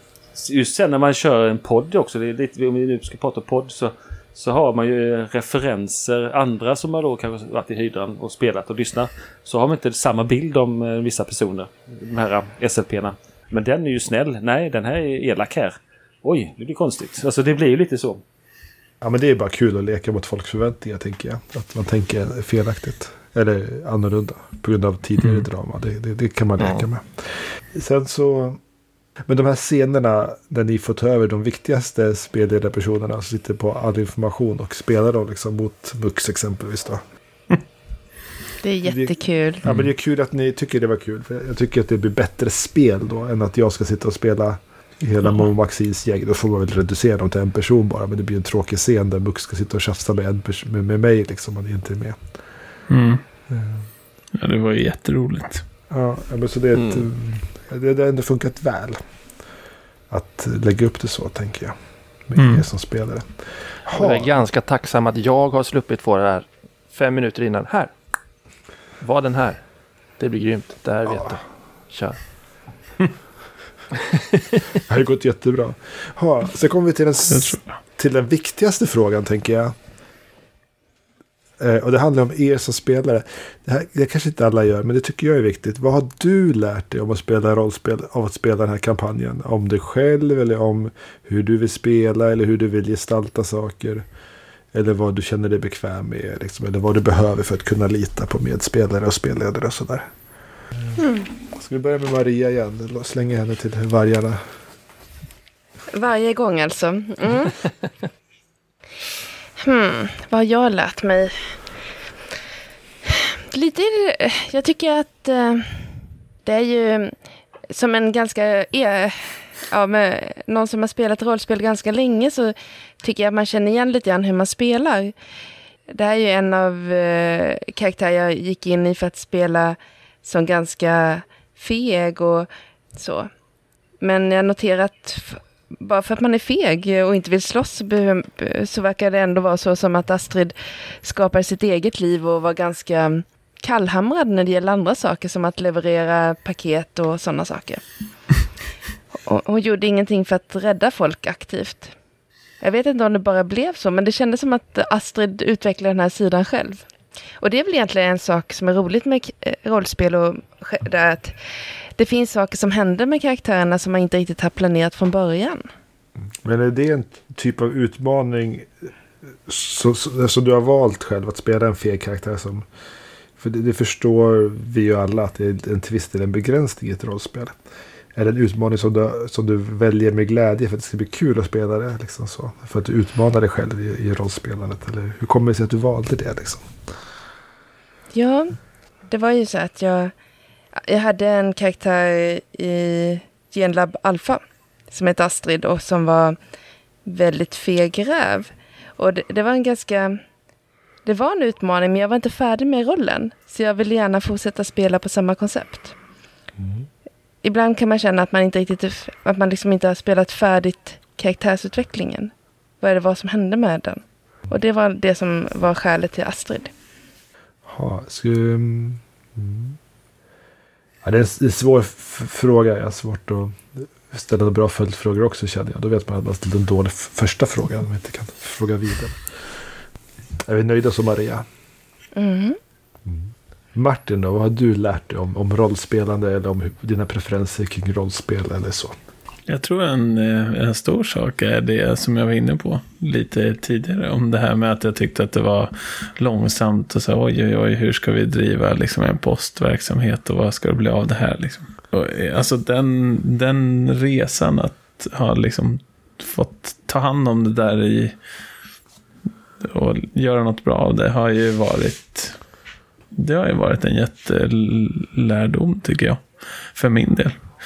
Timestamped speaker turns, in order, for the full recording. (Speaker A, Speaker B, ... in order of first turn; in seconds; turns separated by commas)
Speaker A: 0.3-18.2, Speaker B: 19.0-28.6, Speaker B: 29.3-37.0, Speaker C: 38.6-39.6, Speaker B: 38.8-52.2, Speaker D: 52.9-53.2, Speaker B: 53.5-53.9, Speaker D: 54.4-55.6, Speaker B: 55.9-59.0, Speaker E: 56.8-57.1, Speaker B: 60.1-61.8, Speaker B: 62.3-64.3, Speaker D: 62.4-62.6, Speaker E: 64.0-67.9, Speaker E: 69.0-69.6, Speaker E: 70.2-72.2, Speaker B: 74.8-79.8, Speaker D: 77.3-77.6, Speaker B: 81.6-94.1, Speaker B: 94.7-100.1, Speaker C: 101.0-101.3, Speaker B: 101.5-104.4, Speaker C: 105.9-107.6, Speaker C: 109.6-111.4, Speaker C: 113.1-115.9, Speaker C: 116.5-117.2, Speaker C: 117.7-125.2, Speaker C: 125.9-133.3, Speaker C: 134.0-147.8, Speaker C: 149.2-151.9, Speaker C: 152.6-156.8, Speaker C: 157.4-161.4, Speaker C: 162.0-165.7, Speaker B: 166.4-168.9, Speaker B: 169.5-172.7, Speaker B: 173.4-177.6, Speaker B: 178.2-186.7, Speaker C: 188.1-188.6, Speaker C: 189.1-190.1, Speaker C: 190.8-196.4, Speaker C: 197.1-200.2, Speaker C: 201.1-205.9, Speaker B: 206.6-206.9, Speaker C: 207.4-216.7, Speaker B: 217.7-219.8, Speaker B: 221.0-229.3, Speaker B: 230.5-231.5, Speaker C: 232.2-232.6, Speaker B: 233.1-238.9, Speaker D: 239.5-258.2, Speaker D: 259.6-262.4, Speaker D: 263.1-266.2, Speaker D: 266.7-267.4